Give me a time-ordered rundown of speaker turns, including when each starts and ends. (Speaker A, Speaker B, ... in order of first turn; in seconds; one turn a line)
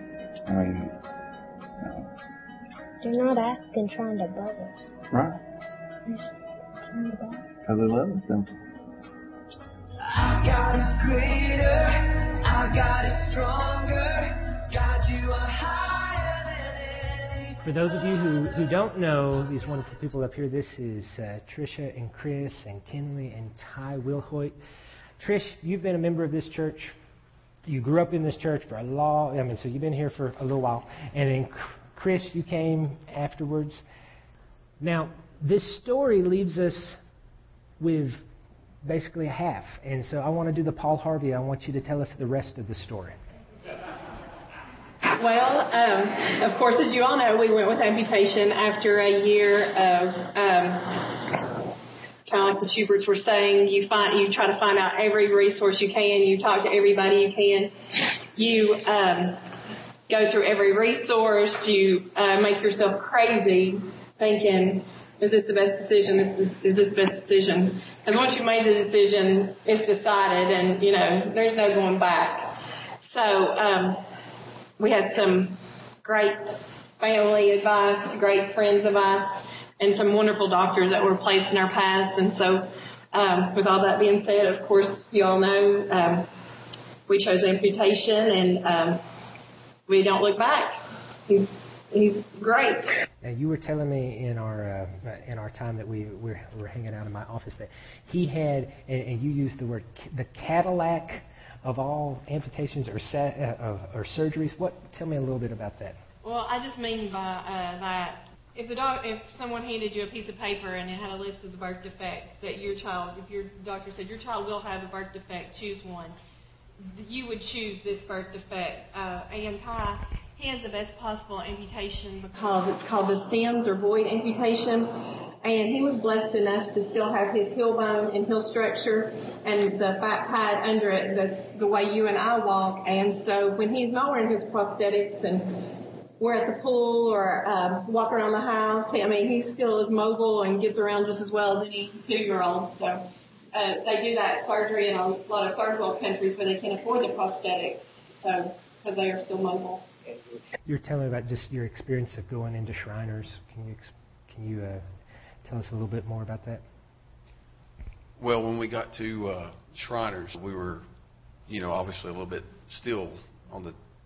Speaker A: 0.5-0.9
Speaker A: 1.8-2.1
Speaker B: 3.0-4.8
Speaker A: 5.1-5.4
Speaker B: 6.9-7.4
Speaker A: 7.6-8.5
Speaker A: 10.3-17.2
Speaker C: 17.6-24.6
Speaker C: 25.2-26.9
Speaker C: 27.7-33.8
Speaker C: 34.8-37.0
Speaker C: 37.8-38.2
Speaker C: 38.8-43.2
Speaker D: 45.1-51.4
Speaker D: 52.3-57.7
Speaker D: 58.3-59.4
Speaker D: 60.1-74.0
Speaker D: 74.8-86.3
Speaker D: 87.1-89.0
Speaker D: 89.9-90.8
Speaker D: 91.3-93.0
Speaker C: 93.2-106.0
Speaker D: 106.2-116.2
Speaker D: 116.8-149.9
Speaker C: 150.7-154.8
Speaker C: 155.4-156.6
Speaker E: 158.2-160.9
Speaker E: 161.5-163.8